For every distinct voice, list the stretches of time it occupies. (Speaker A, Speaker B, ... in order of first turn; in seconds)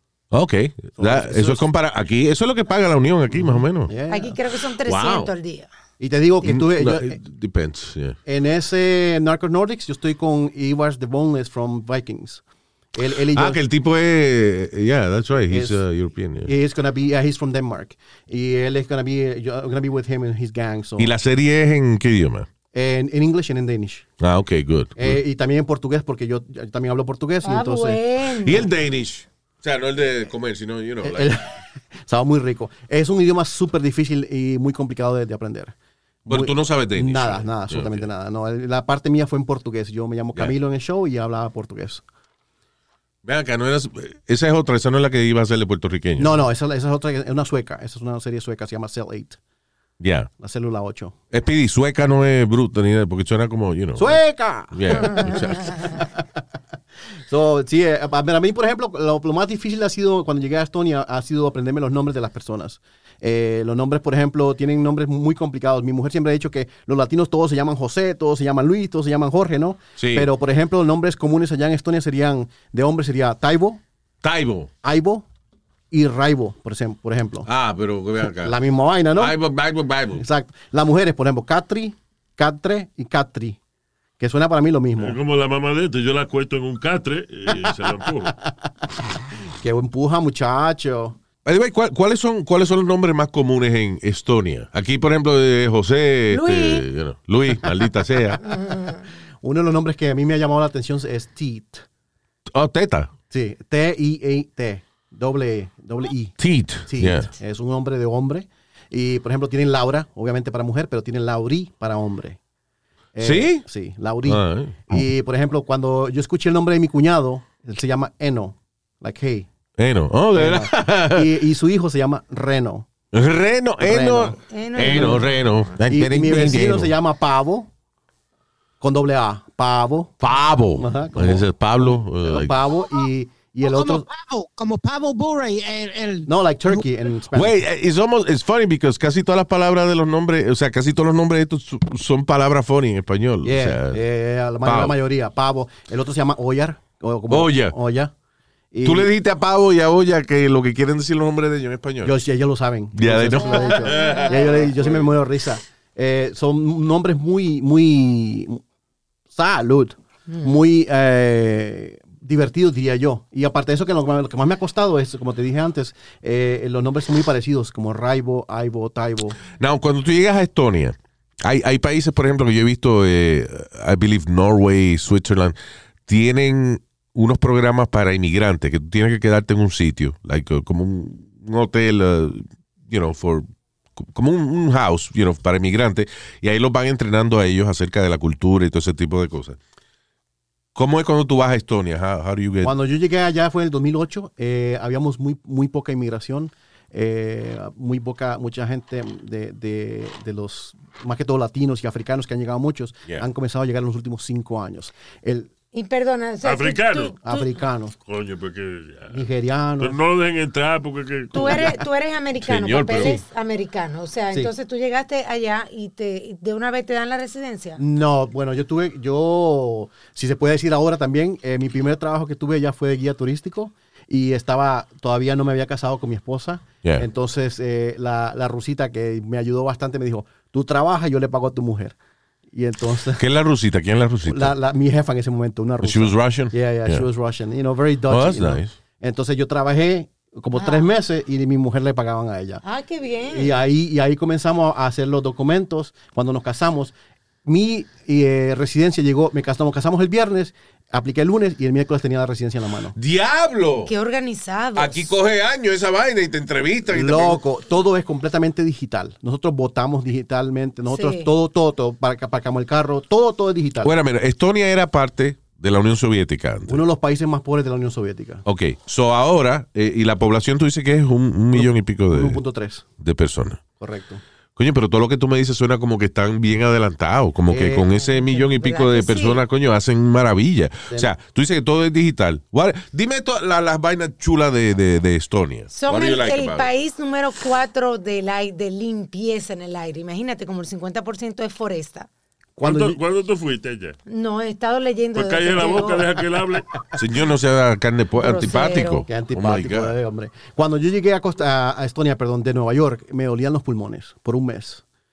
Speaker A: 0.3-3.9, 4.9-5.3, 6.4-8.2, 13.3-16.5, 21.0-22.5, 24.2-25.2, 28.4-31.4, 36.3-38.1, 43.2-46.4, 50.0-50.3, 51.3-54.2, 54.7-55.8, 70.0-70.3, 74.2-74.7, 77.5-78.6, 79.1-80.2, 91.5-98.4, 102.5-103.1, 106.4-107.3, 113.2-113.7, 114.2-115.1, 119.8-121.3, 123.1-126.9, 130.2-132.6, 137.3-144.0, 144.6-145.0, 147.3-147.8, 148.8-152.2, 152.9-154.6, 169.5-175.6, 176.1-183.5, 184.0-189.6, 190.8-192.8, 212.4-213.2, 233.1-234.6, 235.8-237.1, 238.1-238.8, 252.9-253.9, 254.8-257.4, 263.8-266.8, 268.4-272.4, 273.0-273.6, 274.6-286.7, 297.0-299.9
Speaker B: 1.0-1.6, 3.9-4.4, 6.0-7.2, 8.3-12.4, 12.9-13.6, 15.5-15.8, 16.4-21.1, 22.7-24.1, 25.0-28.0, 31.0-42.0, 46.2-49.4, 50.4-51.2, 54.0-56.2, 57.3-73.8, 74.8-75.2, 75.9-77.5, 78.4-79.4, 80.2-83.6, 84.2-85.2, 89.6-91.2, 99.4-101.8, 103.3-106.4, 106.9-112.4, 113.2-119.5, 120.3-122.9, 123.8-125.2, 125.9-127.7, 128.8-130.2, 130.8-134.1, 136.3-137.6, 143.4-148.1, 148.7-149.1, 152.0-158.6, 159.3-169.4, 192.6-205.5, 207.2-208.0, 209.1-210.0, 211.4-211.7, 217.8-231.9, 232.5-233.2, 234.3-242.6, 243.3-246.9, 247.4-253.0, 256.9-263.9, 266.7-268.4, 271.6-272.9, 273.8-274.2, 277.5-277.9, 292.6-293.0, 299.1-304.8
Speaker C: 4.1-5.7, 27.4-28.7, 96.3-96.9, 98.4-99.0, 124.5-125.4, 153.4-154.7, 205.7-207.5, 211.3-217.8, 240.6-240.9, 242.6-243.6, 253.8-255.1, 260.9-261.3, 278.0-279.4, 285.7-292.1, 294.1-296.1, 298.2-299.1
Speaker D: 85.0-88.3, 206.4-207.2, 208.1-209.2, 209.8-211.7, 292.6-294.0, 295.1-296.7
Speaker E: 133.6-136.8